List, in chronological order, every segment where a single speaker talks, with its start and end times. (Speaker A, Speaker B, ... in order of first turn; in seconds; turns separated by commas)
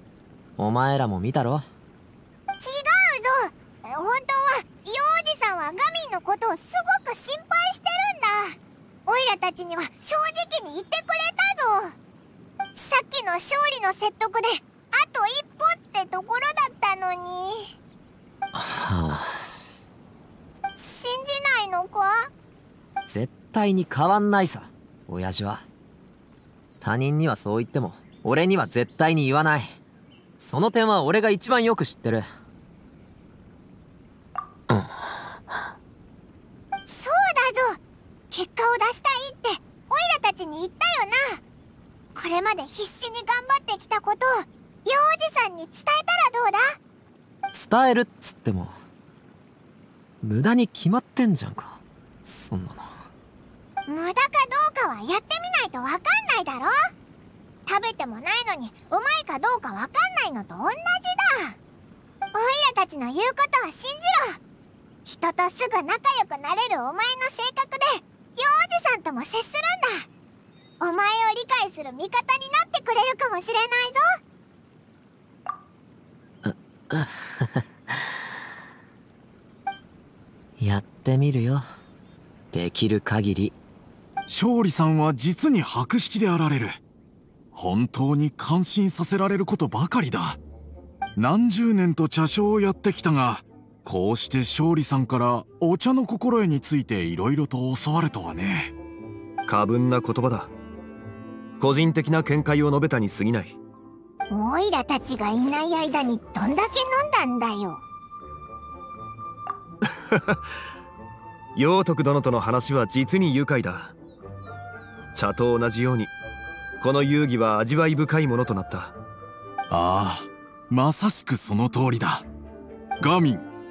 Speaker A: 0.6-1.6, Speaker B: 2.6-11.9, Speaker B: 12.7-17.7, Speaker A: 18.5-19.5, Speaker B: 20.8-22.3, Speaker A: 23.1-25.7, Speaker A: 26.8-29.8, Speaker A: 30.4-32.2, Speaker A: 34.7-35.0, Speaker B: 36.9-37.8, Speaker B: 38.3-41.4, Speaker B: 42.1-46.8, Speaker A: 47.5-48.7, Speaker A: 50.2-53.0, Speaker B: 53.9-56.7, Speaker B: 57.7-61.6, Speaker B: 62.3-64.4, Speaker B: 65.0-70.1, Speaker B: 70.8-74.0, Speaker A: 76.4-77.6, Speaker A: 80.6-81.7, Speaker A: 82.5-83.6, Speaker C: 84.3-86.8, Speaker C: 87.5-90.4, Speaker C: 91.2-98.7, Speaker D: 99.5-100.5, Speaker D: 101.6-103.6, Speaker B: 104.3-107.8, Speaker D: 110.1-110.4, Speaker D: 111.5-114.0, Speaker D: 115.2-116.1, Speaker D: 116.8-119.0, Speaker C: 119.7-122.3, Speaker C: 123.0-123.5